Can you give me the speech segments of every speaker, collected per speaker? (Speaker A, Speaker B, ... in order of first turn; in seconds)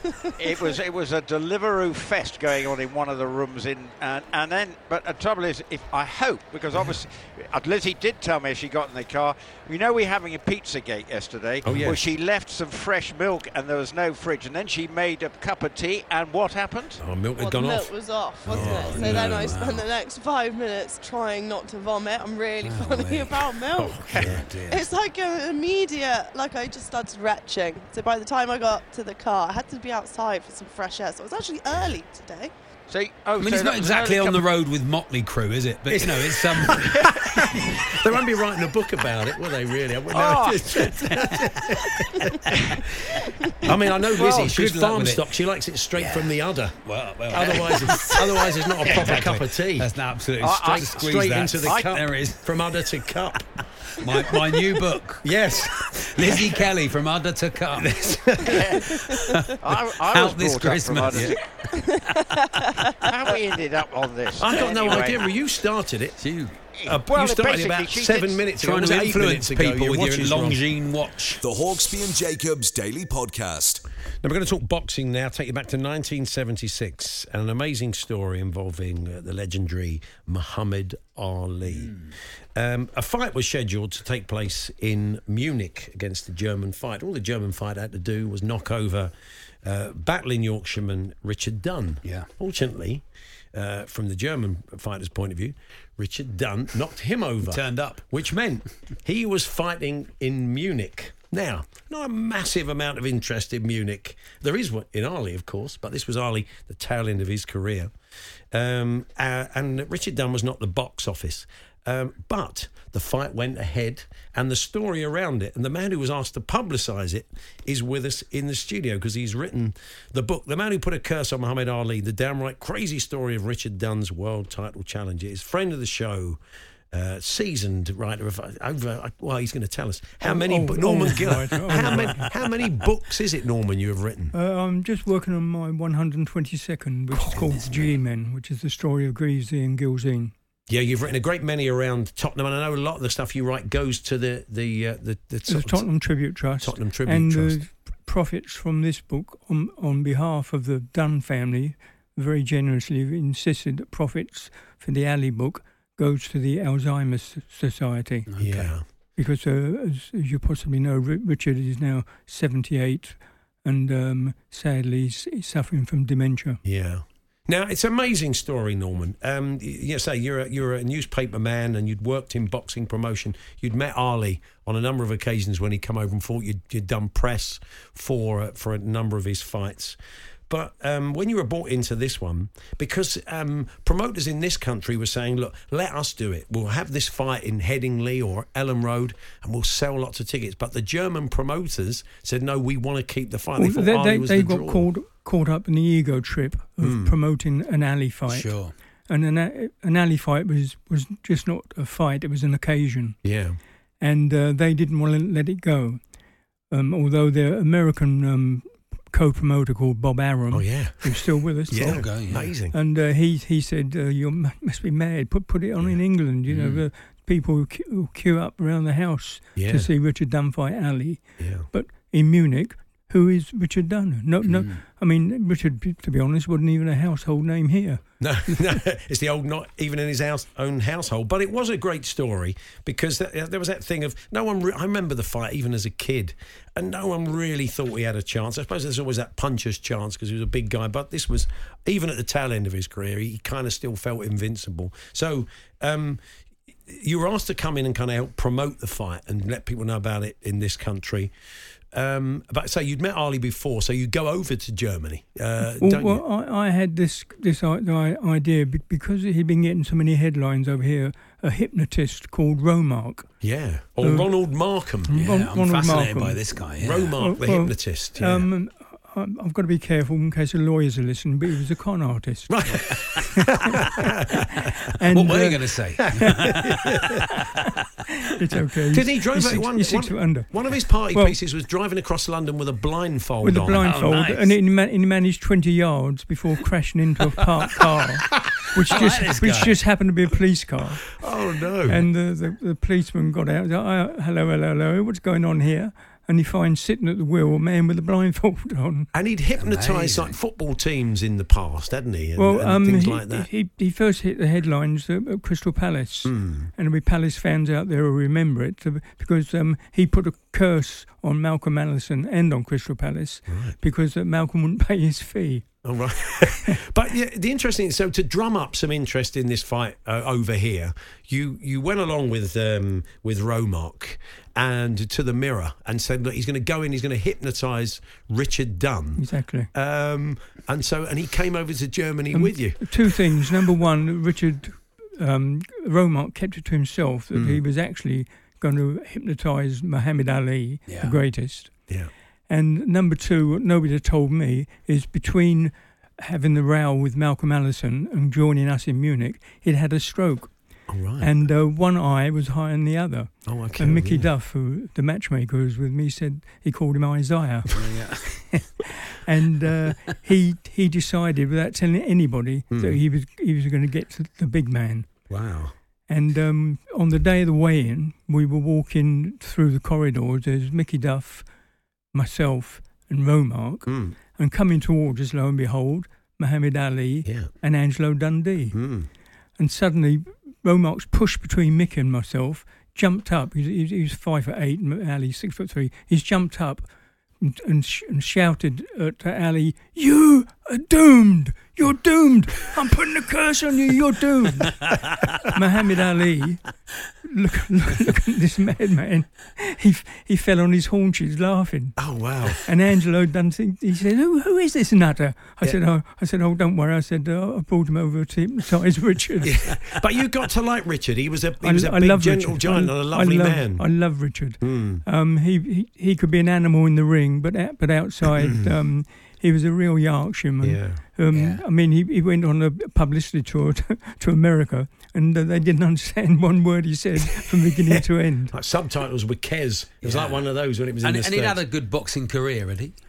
Speaker A: 0.4-17.0, 32.9-34.5, 36.8-37.0, 40.1-40.9, 44.2-44.5, 50.4-51.0, 51.6-51.9, 58.5-58.9, 59.6-61.4, 63.0-65.3, 66.8-68.5
Speaker B: 11.7-12.1, 17.0-17.9, 18.5-19.4, 23.8-24.5, 35.9-42.3, 43.6-46.8, 47.3-49.9, 50.5-53.5, 55.2-56.6, 57.8-58.8, 64.4-66.2, 66.8-70.6, 74.2-82.0, 82.6-89.1, 89.6-93.0, 93.5-107.9, 108.5-126.4, 126.9-134.3, 140.7-145.9, 146.6-147.6, 158.4-158.8, 166.7-180.0, 180.5-194.9, 196.8-197.2, 203.2-203.6, 210.5-212.8, 219.6-219.9, 221.4-221.7, 228.2-246.2, 246.9-251.3, 251.9-256.2, 263.4-265.1, 266.8-268.5, 272.5-274.7, 276.1-277.3, 278.9-283.9, 291.2-292.1, 299.1-303.5, 306.2-306.7, 313.5-313.8, 315.8-332.9, 337.3-337.6, 350.9-351.3, 353.5-354.3, 362.7-363.0, 365.3-365.7, 373.9-374.2, 378.7-379.1, 402.0-402.6, 409.4-413.9, 414.6-415.0, 418.4-418.7, 420.6-421.0, 427.8-431.6
Speaker C: 17.4-32.5
Speaker D: 18.5-19.9, 22.6-23.5, 24.1-24.9, 33.4-37.6, 41.1-41.6, 42.2-42.8, 44.1-45.3, 46.0-52.5, 54.0-55.3, 55.8-63.1, 66.2-66.6, 68.6-71.4, 81.7-82.1, 97.5-98.0, 137.1-138.0, 158.3-158.7, 198.3-198.7, 211.7-212.5, 216.5-216.8, 224.5-224.8, 265.1-267.1, 275.1-277.3, 283.8-284.5, 288.9-289.8, 299.6-300.4, 340.9-341.2, 357.7-358.7, 421.3-421.6, 430.0-432.9
Speaker E: 71.4-73.8
Speaker F: 130.2-132.3, 134.3-140.3, 145.5-158.3, 159.2-166.6, 193.6-198.6, 199.1-203.2, 204.0-206.0, 206.7-228.0, 255.7-263.3, 264.0-264.3, 265.1-266.4, 267.2-272.6, 273.4-273.8, 274.9-275.6, 278.3-280.5, 281.1-281.4, 283.4-291.1, 291.9-299.1, 302.4-315.8, 329.2-329.7, 332.3-341.7, 342.5-350.5, 351.2-357.9, 359.1-365.1, 366.1-371.5, 372.1-378.8, 379.6-386.9, 387.4-394.9, 395.5-396.6, 397.2-402.0, 402.6-409.7, 411.6-428.5